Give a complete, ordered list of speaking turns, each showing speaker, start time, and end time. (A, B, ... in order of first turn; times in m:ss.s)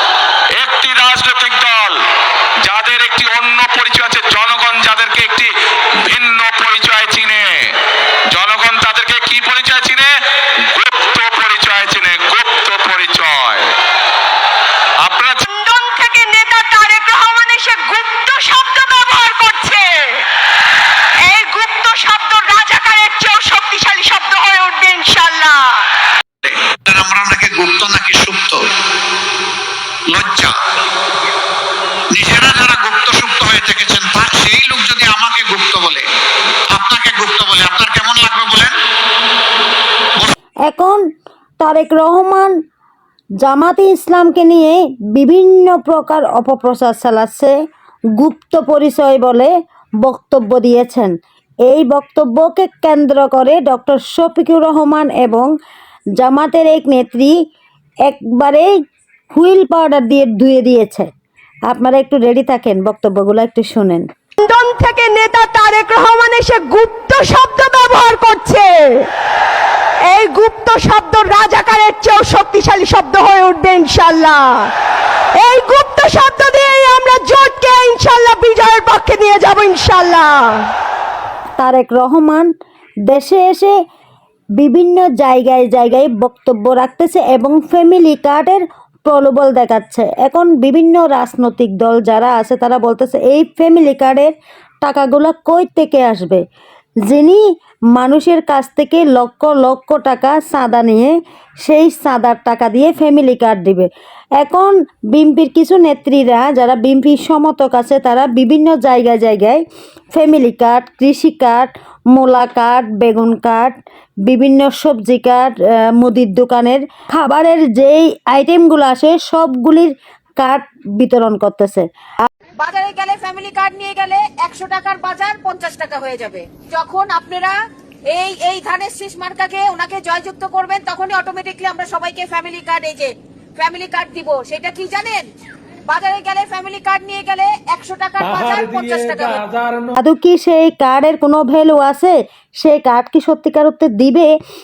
0:00.6-0:02.0 A
0:02.6-0:07.7 A
0:08.3-0:10.1 A
0:10.7-0:13.7 A
0:15.0-0:15.4 A
0:15.4-0:20.2 B
0:21.2-0:25.8 B
0:26.4-0:28.6 C
0:30.1-0:30.5 C
0:32.1-0:36.0 C
0:36.7-0:38.8 C
0:40.6-0:41.0 D
0:41.6-0:42.5 D
0:43.4-0:47.5 D
0:48.2-0:51.1 D
0:51.6-0:55.5 D
0:56.2-0:57.3 D
0:58.1-0:58.7 D
0:59.3-1:01.1 D
1:01.7-1:04.1 D
1:04.4-1:09.1 B
1:10.1-1:14.7 B
1:15.4-1:20.7 B
1:21.6-1:22.5 D
1:23.1-1:23.7 D
1:24.6-1:34.3 D
1:34.8-1:36.4 D
1:37.1-1:37.4 D
1:37.9-1:41.1 D
1:41.6-2:01.8 D
2:02.6-2:07.6 E
2:08.1-2:15.3 E
2:15.9-2:19.5 E
2:20.0-2:24.3 D